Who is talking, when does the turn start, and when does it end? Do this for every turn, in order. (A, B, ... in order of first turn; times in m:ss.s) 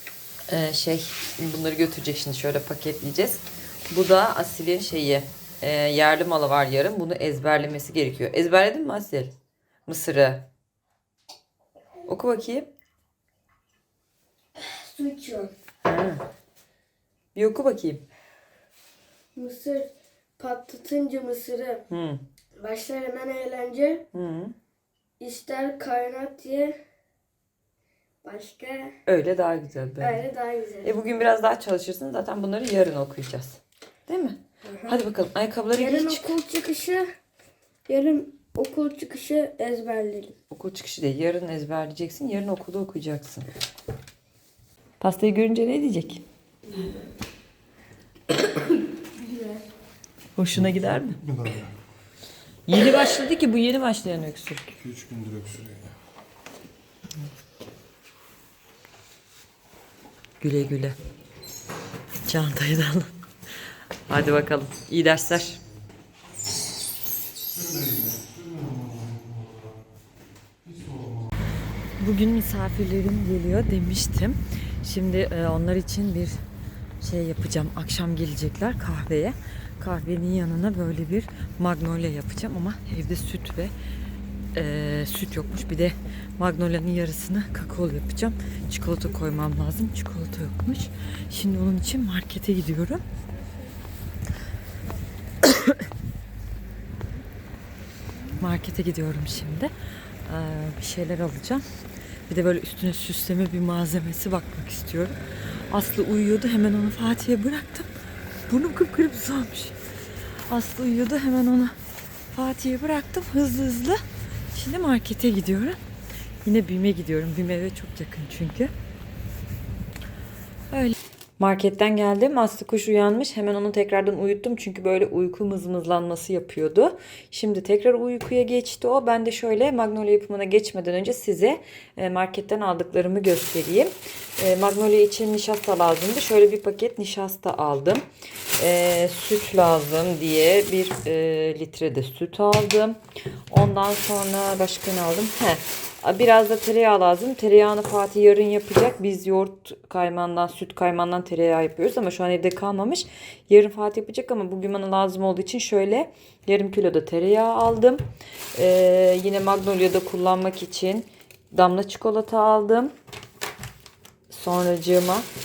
0:00.5-0:09.3 A
0:09.9-0:10.4 A
0:12.0-0:12.7 A
0:14.6-0:15.5 B
0:15.8-0:16.2 A
0:17.3-0:18.0 A
0:19.4-0:21.8 B
0:21.9-0:22.2 A
0:22.6-0:24.0 B
0:24.1-0:24.5 A
0:25.2-0:26.8 B
0:28.2-0:28.9 B
0:29.0-0:30.2 A
0:30.0-0:30.9 B
0:30.8-0:36.4 A
0:35.8-0:37.0 B
0:37.9-0:40.3 B
0:40.5-0:43.5 A
0:45.0-0:46.2 A
0:50.4-0:51.2 A
0:51.2-0:51.7 C
0:52.7-0:54.8 A
0:54.8-0:55.9 C
1:00.4-1:01.0 A
1:02.2-1:03.1 A
1:04.1-1:05.6 A
1:07.5-1:09.7 C
1:10.6-1:11.3 C
1:12.0-1:16.4 A
1:17.0-1:23.7 A
1:24.5-1:33.0 A
1:35.4-1:35.9 A
1:38.4-1:39.7 A
1:40.2-1:41.6 A
1:42.3-1:47.9 A
1:48.5-1:49.8 A
1:50.5-1:51.8 A
1:52.3-1:55.8 A
1:56.4-1:58.7 A
2:00.7-2:18.0 A
2:18.6-2:38.0 A
2:38.5-2:42.9 A
2:44.3-2:45.3 A